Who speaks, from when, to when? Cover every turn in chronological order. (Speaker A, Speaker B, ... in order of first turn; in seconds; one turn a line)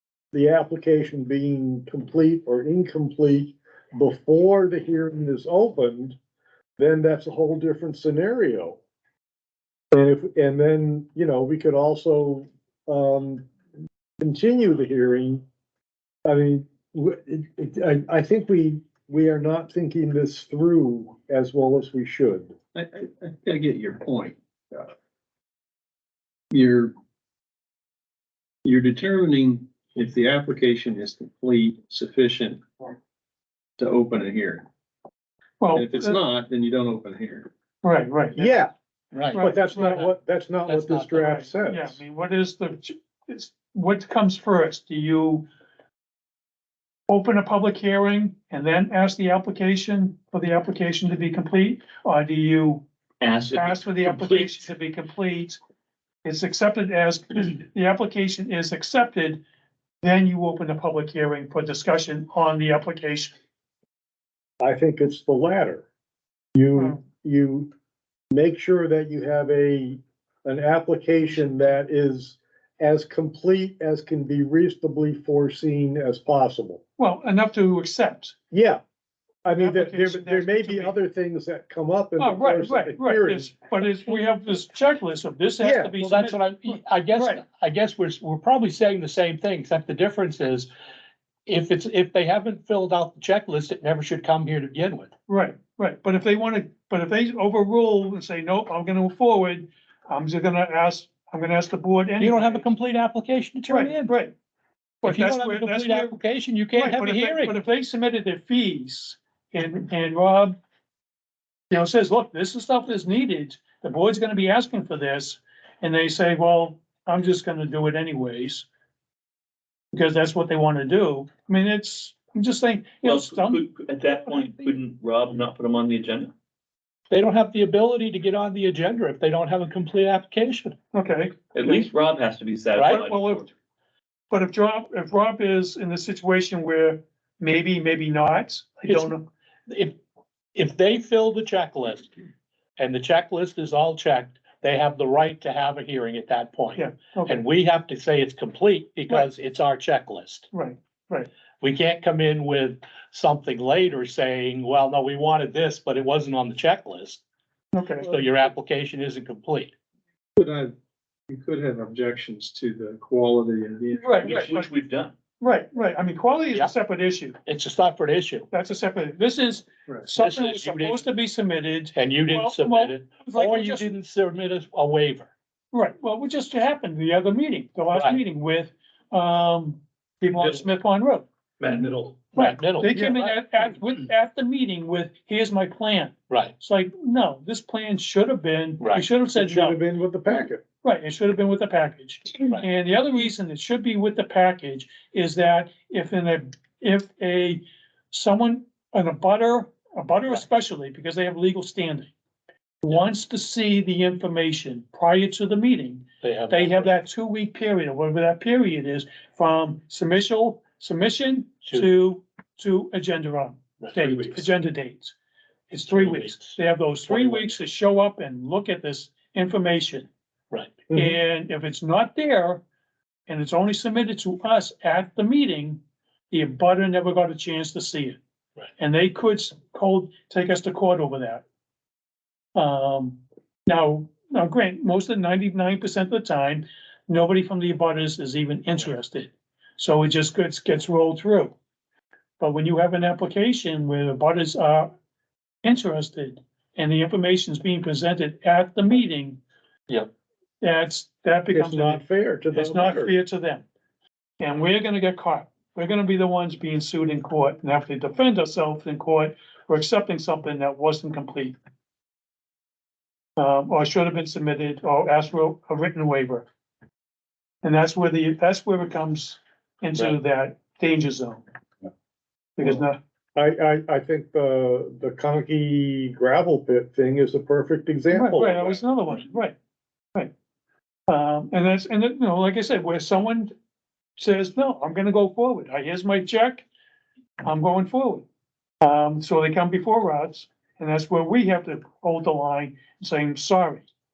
Speaker A: 0.3-6.2
Speaker A: 6.8-8.8
Speaker A: 9.9-13.5
Speaker A: 14.2-15.4
Speaker A: 16.2-22.5
Speaker B: 22.8-24.9
Speaker B: 26.5-26.9
Speaker B: 28.6-32.9
Speaker B: 33.8-34.7
Speaker C: 35.6-36.2
Speaker B: 35.7-37.5
Speaker C: 37.8-38.6
Speaker A: 38.4-38.7
Speaker D: 39.1-40.1
Speaker C: 39.3-40.0
Speaker A: 39.4-42.0
Speaker D: 40.7-41.3
Speaker C: 41.2-45.5
Speaker C: 47.1-52.9
Speaker E: 53.2-54.6
Speaker C: 53.5-55.6
Speaker C: 56.2-59.4
Speaker C: 60.0-63.4
Speaker A: 64.6-65.9
Speaker A: 66.5-67.7
Speaker A: 68.3-76.8
Speaker C: 77.0-78.3
Speaker A: 78.5-78.8
Speaker A: 79.4-83.5
Speaker C: 79.5-81.0
Speaker C: 82.2-87.4
Speaker A: 85.6-86.0
Speaker D: 86.0-90.7
Speaker D: 91.5-95.1
Speaker C: 95.3-102.7
Speaker D: 102.2-104.2
Speaker C: 103.7-104.3
Speaker C: 105.0-106.2
Speaker D: 105.0-107.5
Speaker C: 106.7-110.6
Speaker C: 111.7-118.7
Speaker C: 119.9-123.6
Speaker E: 123.0-126.3
Speaker C: 124.3-124.6
Speaker D: 127.1-130.8
Speaker C: 130.9-131.9
Speaker E: 131.5-133.5
Speaker D: 132.8-133.0
Speaker C: 132.8-133.5
Speaker C: 134.3-139.3
Speaker D: 138.9-139.1
Speaker D: 139.7-140.0
Speaker D: 140.6-142.1
Speaker D: 142.8-150.4
Speaker C: 146.8-147.4
Speaker C: 150.5-151.3
Speaker D: 151.6-157.2
Speaker C: 157.7-158.1
Speaker D: 158.0-159.7
Speaker B: 160.4-160.7
Speaker B: 161.3-164.5
Speaker C: 163.9-164.7
Speaker E: 164.2-165.1
Speaker C: 165.4-167.4
Speaker D: 167.5-168.5
Speaker C: 168.5-173.9
Speaker D: 170.2-171.0
Speaker D: 171.9-175.3
Speaker C: 175.7-181.3
Speaker D: 177.9-178.2
Speaker E: 181.6-182.1
Speaker D: 182.2-183.2
Speaker C: 182.3-189.8
Speaker D: 188.8-189.1
Speaker A: 189.3-190.6
Speaker C: 190.8-202.1
Speaker C: 202.8-215.1
Speaker D: 206.2-206.9
Speaker D: 213.8-214.5
Speaker C: 215.7-220.1
Speaker D: 215.9-217.6
Speaker D: 220.5-220.9
Speaker C: 220.9-222.6
Speaker C: 223.3-228.2
Speaker C: 228.8-231.4
Speaker C: 232.6-241.6
Speaker C: 242.4-244.9
Speaker C: 245.6-249.4
Speaker C: 250.6-253.6
Speaker A: 251.5-253.1
Speaker C: 254.4-261.6
Speaker C: 263.4-266.5
Speaker C: 267.6-271.4
Speaker C: 272.6-273.0
Speaker A: 273.4-278.8
Speaker C: 278.1-279.6
Speaker C: 281.1-283.5
Speaker C: 284.2-286.7
Speaker C: 287.4-288.2
Speaker C: 288.8-293.9